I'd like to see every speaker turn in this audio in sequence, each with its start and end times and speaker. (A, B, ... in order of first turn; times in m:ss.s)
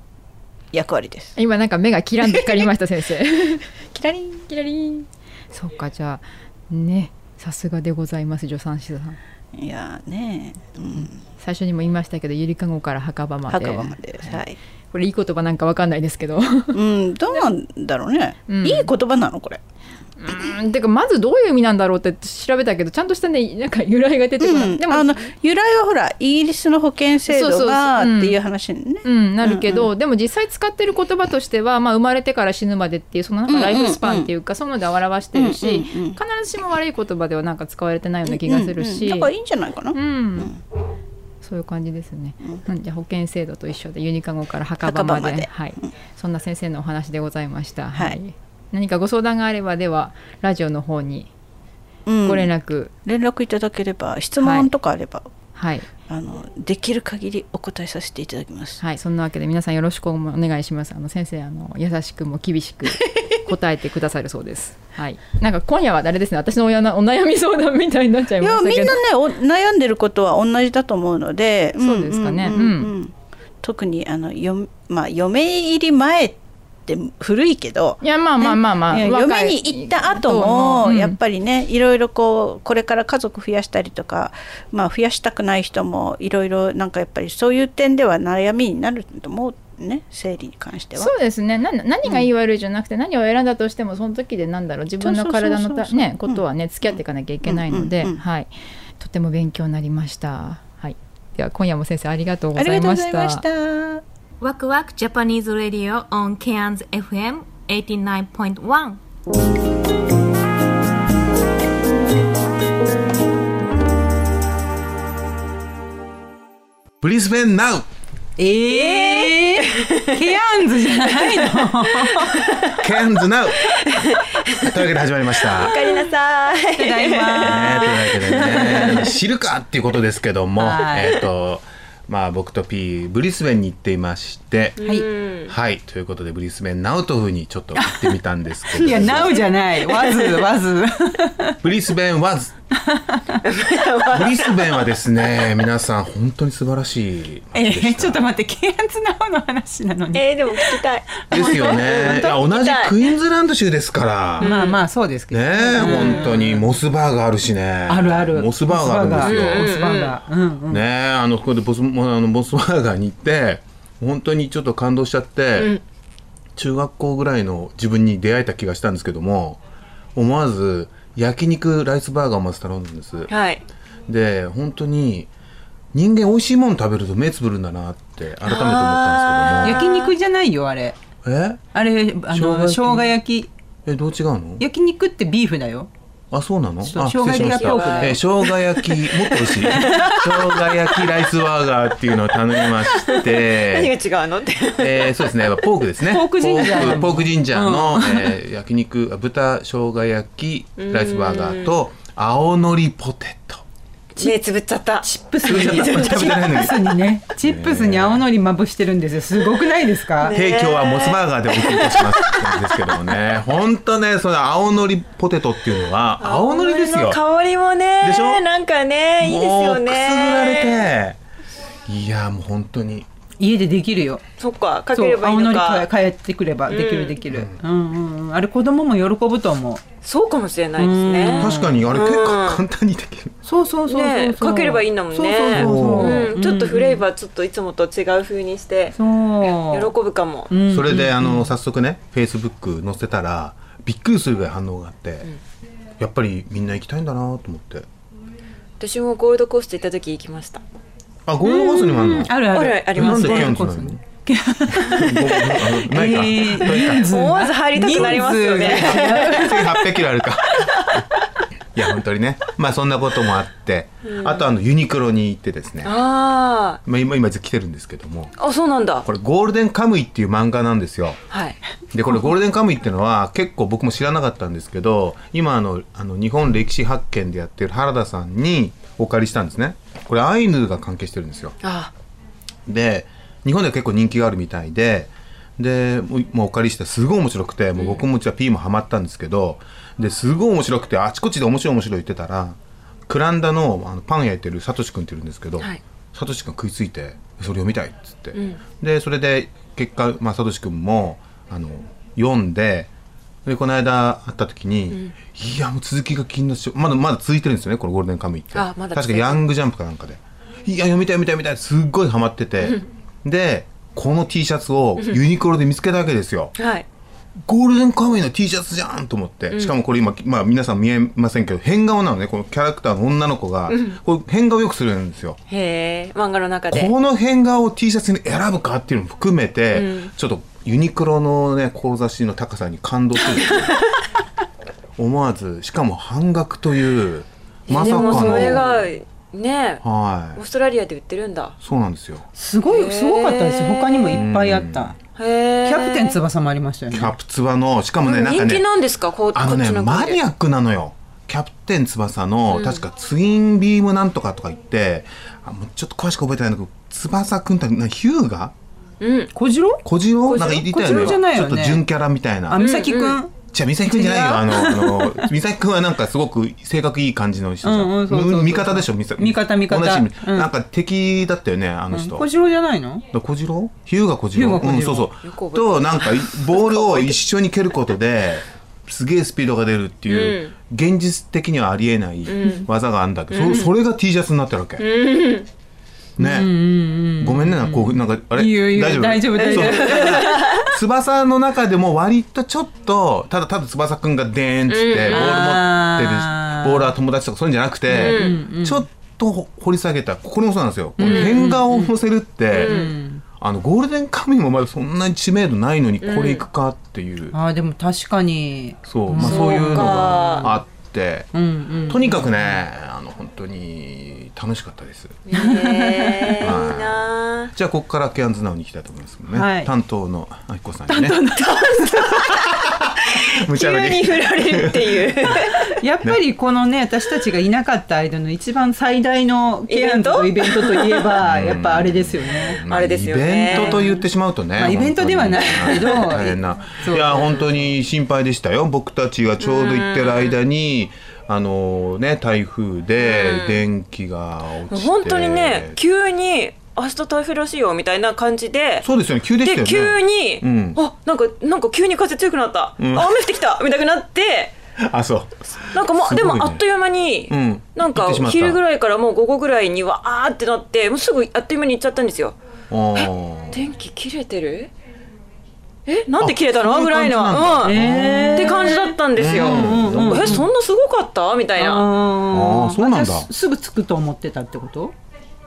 0:00.7-0:01.4 A
0:01.4-0:03.7 B
0:03.9-0:04.5 A
0:04.5-0:09.2 B
0:09.6-0:11.2 A
0:11.0-0:14.4 B
0:13.5-0:14.6 A
0:14.9-0:16.8 B
0:16.7-0:19.6 A
0:18.5-0:18.9 B
0:20.2-0:25.2 B
0:24.4-0:29.8 A
0:27.3-0:28.4 B
0:29.0-0:39.3 B
0:33.5-0:34.3 A
0:35.3-0:36.2 A
0:38.3-0:40.6 A
0:39.9-0:40.5 B
0:41.4-0:51.3 B
0:44.8-0:45.9 A
0:52.0-0:52.5 A
0:52.2-0:52.9 B
0:53.0-0:55.3 A
0:54.4-0:54.7 B
0:55.5-0:55.9 B
0:56.1-0:58.8 A
0:58.8-1:09.0 B
1:08.4-1:31.1 A
1:11.8-1:12.9 B
1:18.0-1:21.2 B
1:30.9-1:43.4 B
1:35.0-1:36.4 A
1:37.4-1:38.2 A
1:42.6-1:44.0 A
1:44.4-1:49.0 C
1:57.0-1:57.8 D
1:58.4-2:02.3 E
1:58.7-2:00.2 F
2:02.8-2:03.6 D
2:03.6-2:04.6 F
2:04.6-2:05.9 D
2:05.4-2:08.6 F
2:06.8-2:09.1 E
2:07.4-2:14.8 D
2:10.6-2:11.1 E
2:14.8-2:15.5 F
2:15.5-2:19.5 D
2:17.8-2:18.1 E
2:18.7-2:21.6 E
2:19.3-2:20.3 F
2:21.6-2:22.5 D
2:22.8-2:23.2 E
2:23.4-2:24.9 F
2:24.1-2:28.2 D
2:27.5-2:30.8 E
2:30.1-2:33.0 F
2:31.3-2:34.5 D
2:34.4-2:34.8 F
2:34.4-2:36.6 E
2:35.3-2:39.8 D
2:35.8-2:36.2 F
2:37.9-2:40.8 E
2:39.2-2:40.2 F
2:40.7-2:45.7 D
2:45.6-2:45.8 F
2:46.6-2:49.6 D
2:50.2-2:53.3 D
2:53.3-2:53.6 F
2:54.1-2:55.3 D
2:55.9-2:59.9 D
2:58.4-3:00.1 F
2:59.6-3:01.0 E
3:01.2-3:01.7 D
3:01.7-3:03.5 E
3:02.3-3:03.2 D
3:03.8-3:04.6 D
3:04.6-3:05.9 E
3:06.3-3:13.9 D
3:06.8-3:08.2 E
3:07.4-3:08.2 F
3:09.6-3:10.0 E
3:09.8-3:10.1 F
3:12.9-3:15.5 F
3:14.8-3:23.6 D
3:16.0-3:18.3 E
3:20.8-3:21.7 F
3:24.2-3:26.6 F
3:25.0-3:30.3 E
3:25.4-3:28.3 D
3:29.4-3:29.7 F
3:30.2-3:32.3 F
3:30.3-3:37.2 D
3:36.2-3:40.9 F
3:38.0-3:38.4 D
3:39.2-3:41.2 D
3:41.9-3:43.1 D
3:43.4-3:44.2 E
3:44.4-3:45.9 F
3:44.9-3:49.9 E
3:46.7-3:47.2 F
3:47.3-3:47.6 D
3:50.0-3:52.6 F
3:50.8-3:51.8 E
3:51.3-3:53.4 D
3:53.4-3:57.0 E
3:53.9-3:59.0 F
3:55.5-3:56.4 D
3:58.9-3:59.9 E
3:59.7-4:00.6 F
4:00.5-4:01.5 E
4:00.7-4:05.3 D
4:06.0-4:07.8 D
4:08.8-4:10.6 F
4:11.2-4:14.1 D
4:11.4-4:15.2 E
4:12.4-4:13.6 F
4:14.7-4:17.1 D
4:15.7-4:19.8 E
4:16.7-4:19.4 F
4:17.8-4:21.0 D
4:20.6-4:21.0 F
4:21.7-4:25.9 D
4:24.0-4:24.4 F
4:25.8-4:26.8 F
4:26.8-4:28.3 D
4:28.4-4:29.0 F
4:29.0-4:31.2 D
4:31.3-4:31.6 F
4:31.9-4:41.5 D
4:41.6-4:41.9 F
4:42.7-4:52.6 D
4:47.8-4:48.0 F
4:53.1-5:02.9 D
4:58.3-4:58.6 F
5:03.4-5:16.5 D
5:08.5-5:09.4 F
5:16.6-5:16.8 F
5:17.5-5:25.4 D
5:23.7-5:24.0 F
5:25.5-5:26.9 F
5:26.7-5:33.8 D
5:29.7-5:30.1 F
5:33.2-5:34.0 F
5:35.0-5:38.9 D
5:37.7-5:39.8 F
5:37.7-5:38.7 E
5:39.8-5:40.4 D
5:40.4-5:41.5 F
5:41.6-5:42.2 D
5:42.3-5:44.9 E
5:42.7-5:44.1 F
5:44.1-5:44.9 D
5:45.1-5:46.2 F
5:45.6-5:47.1 E
5:46.9-5:48.6 D
5:48.0-5:50.2 F
5:49.3-5:58.5 D
5:52.5-5:52.8 F
5:59.0-5:59.3 F
5:59.3-6:01.8 E
5:59.8-6:12.3 D
6:02.5-6:05.3 E
6:02.6-6:03.2 F
6:07.6-6:10.5 E
6:11.9-6:13.0 E
6:13.1-6:24.8 D
6:14.3-6:15.1 E
6:15.2-6:17.2 F
6:20.1-6:20.5 F
6:22.3-6:22.6 F
6:23.3-6:23.7 F
6:24.8-6:25.5 F
6:26.2-6:30.6 E
6:26.2-6:47.4 D
6:29.4-6:30.6 F
6:34.7-6:35.5 F
6:35.1-6:36.9 E
6:37.9-6:38.8 E
6:37.9-6:38.4 F
6:41.0-6:41.9 E
6:41.0-6:41.4 F
6:42.5-6:43.2 E
6:42.6-6:42.9 F
6:46.0-6:46.4 F
6:47.3-6:50.6 E
6:48.8-6:51.3 D
6:49.2-6:50.5 F
6:51.3-6:52.6 E
6:51.9-6:55.2 D
6:55.3-6:57.5 F
6:55.4-6:56.3 E
6:56.4-7:01.2 D
6:59.3-6:59.7 E
7:00.9-7:02.0 E
7:01.3-7:02.4 F
7:03.4-7:05.4 D
7:03.5-7:05.7 F
7:05.8-7:12.6 E
7:09.7-7:11.0 F
7:11.2-7:25.8 D
7:12.7-7:13.8 F
7:13.5-7:14.0 E
7:14.6-7:17.6 E
7:15.6-7:16.0 F
7:19.4-7:20.4 F
7:23.0-7:23.6 F
7:24.7-7:28.9 F
7:28.8-7:30.8 D
7:29.4-7:34.6 F
7:32.8-7:33.2 D
7:34.8-7:36.6 D
7:35.7-7:42.4 F
7:37.3-7:38.6 D
7:42.7-7:43.6 D
7:43.0-7:44.7 F
7:45.9-7:51.9 F
7:46.2-7:50.5 D
7:47.6-7:50.5 E
7:51.6-7:54.9 E
7:52.3-7:53.3 D